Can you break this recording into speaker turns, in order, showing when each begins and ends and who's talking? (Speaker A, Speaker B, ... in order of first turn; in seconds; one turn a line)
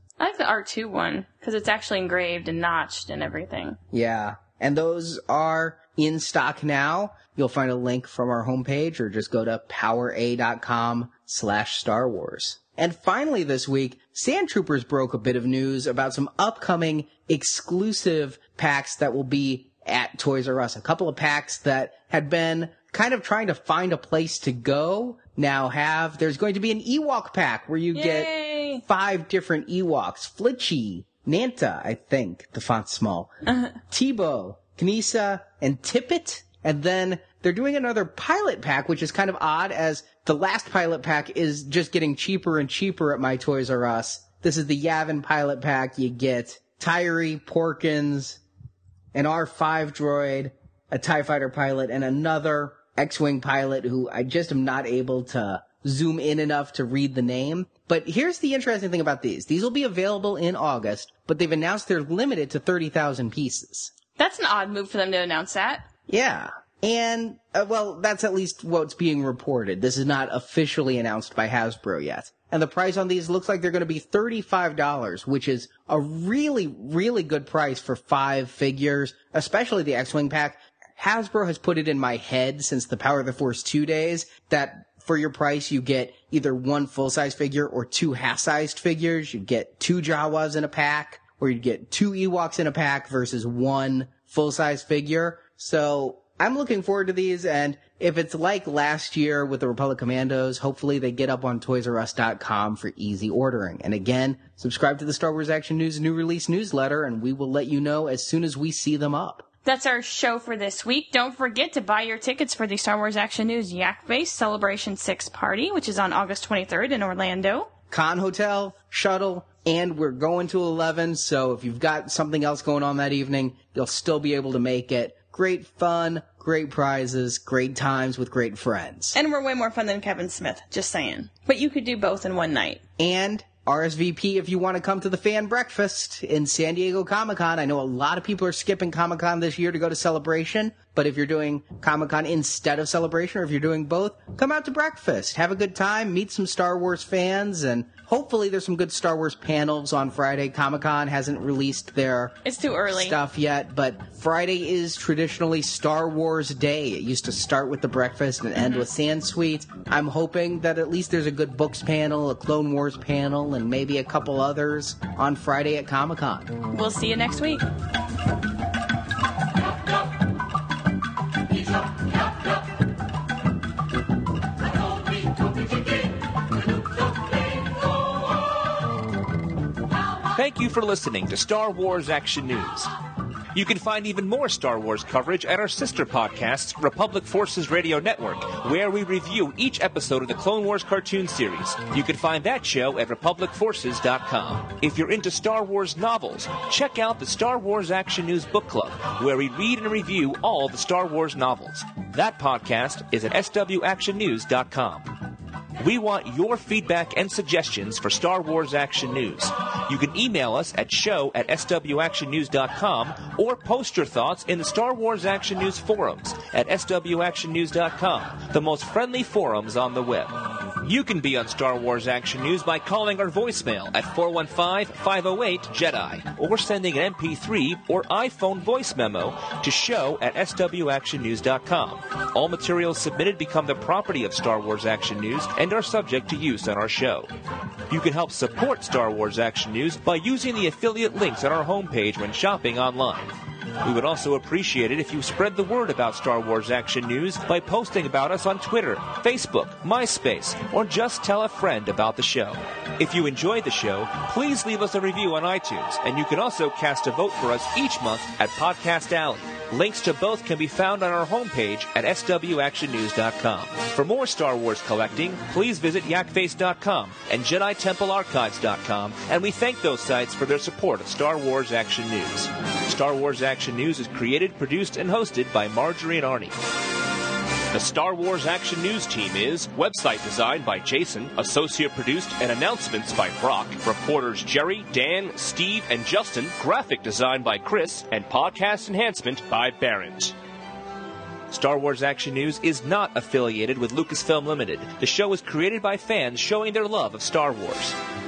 Speaker A: 0.2-3.8
Speaker B: 3.9-28.3
Speaker A: 27.9-28.8
Speaker B: 28.8-33.3
Speaker A: 33.5-33.7
Speaker B: 33.9-48.4
Speaker B: 49.1-63.9
Speaker A: 64.2-65.8
Speaker B: 66.1-109.5
Speaker A: 109.6-117.7
Speaker B: 117.9-129.2
Speaker A: 129.1-132.8
Speaker B: 133.0-152.4
Speaker A: 152.4-153.2
Speaker B: 152.9-166.5
Speaker A: 158.6-158.9
Speaker A: 166.7-167.6
Speaker C: 180.3-182.9
Speaker C: 183.5-205.2
Speaker C: 205.8-237.3
Speaker C: 237.9-243.3
Speaker C: 243.8-276.6
Speaker C: 277.7-290.3
Speaker C: 291.5-297.9